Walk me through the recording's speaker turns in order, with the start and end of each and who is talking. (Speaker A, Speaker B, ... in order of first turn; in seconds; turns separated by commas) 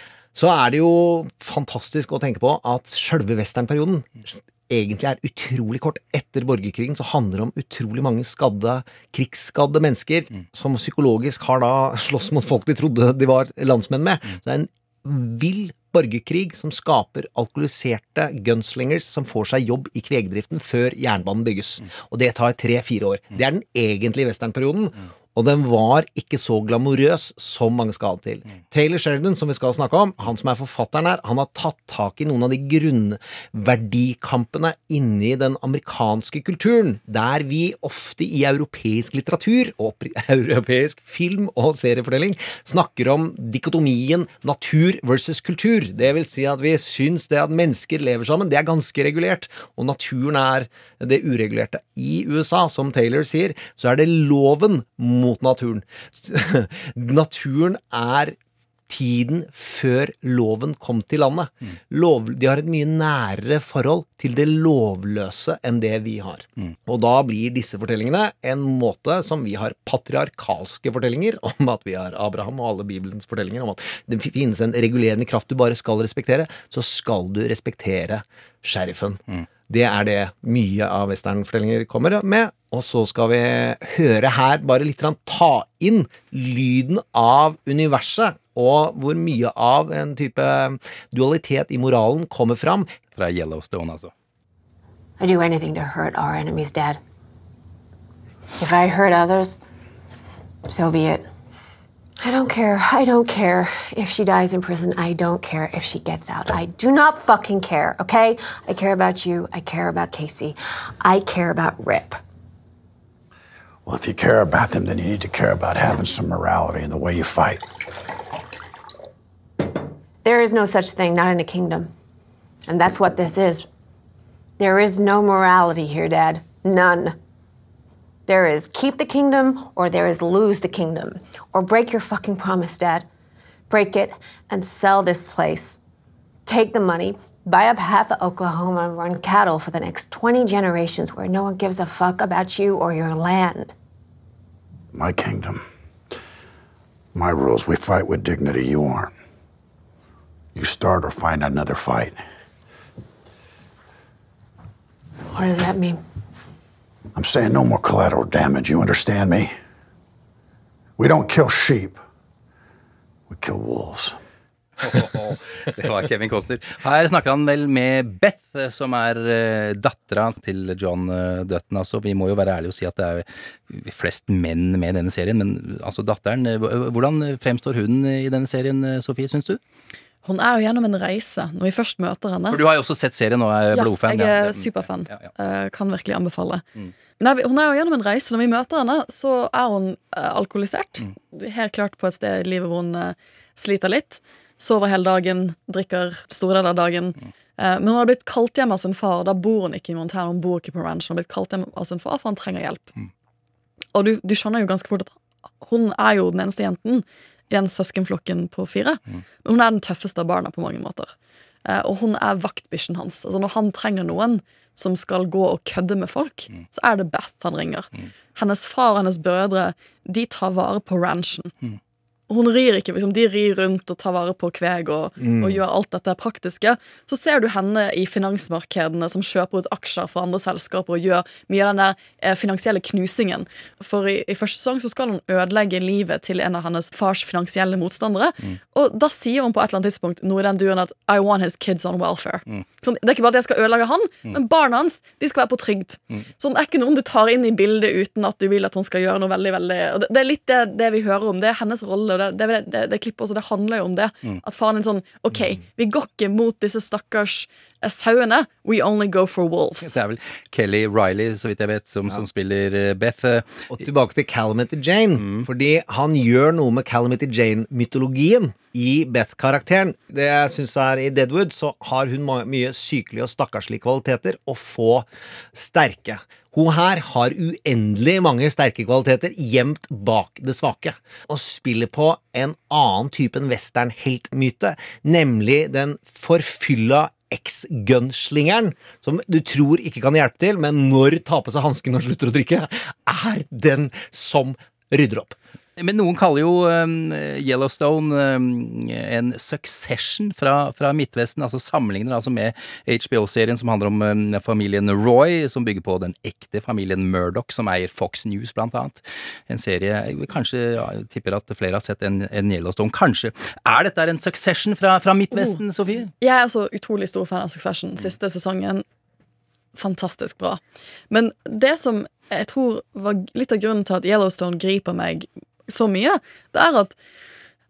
Speaker A: 0.3-58.4, Speaker A: 58.9-92.9, Speaker B: 93.2-94.1, Speaker C: 95.2-97.0, Speaker C: 98.6-99.6, Speaker C: 100.7-101.2, Speaker C: 102.2-112.2, Speaker D: 113.8-117.6, Speaker C: 120.2-121.9, Speaker C: 122.7-123.7, Speaker C: 124.6-127.2, Speaker C: 128.3-133.1, Speaker C: 133.7-135.8, Speaker C: 136.4-143.7, Speaker D: 144.9-145.6, Speaker D: 147.1-149.1, Speaker D: 150.5-152.2, Speaker C: 155.3-156.0, Speaker D: 157.1-159.6, Speaker D: 161.0-162.0, Speaker D: 163.3-164.2, Speaker B: 164.8-179.6, Speaker E: 180.2-182.6, Speaker B: 182.5-185.2, Speaker E: 183.7-186.6, Speaker E: 187.2-202.9, Speaker E: 203.9-211.1, Speaker E: 211.6-221.5, Speaker E: 222.3-259.9, Speaker A: 225.2-225.6, Speaker B: 259.8-263.7, Speaker A: 263.7-295.4, Speaker B: 265.2-265.4, Speaker B: 295.8-316.1, Speaker E: 316.2-318.8, Speaker E: 319.8-326.9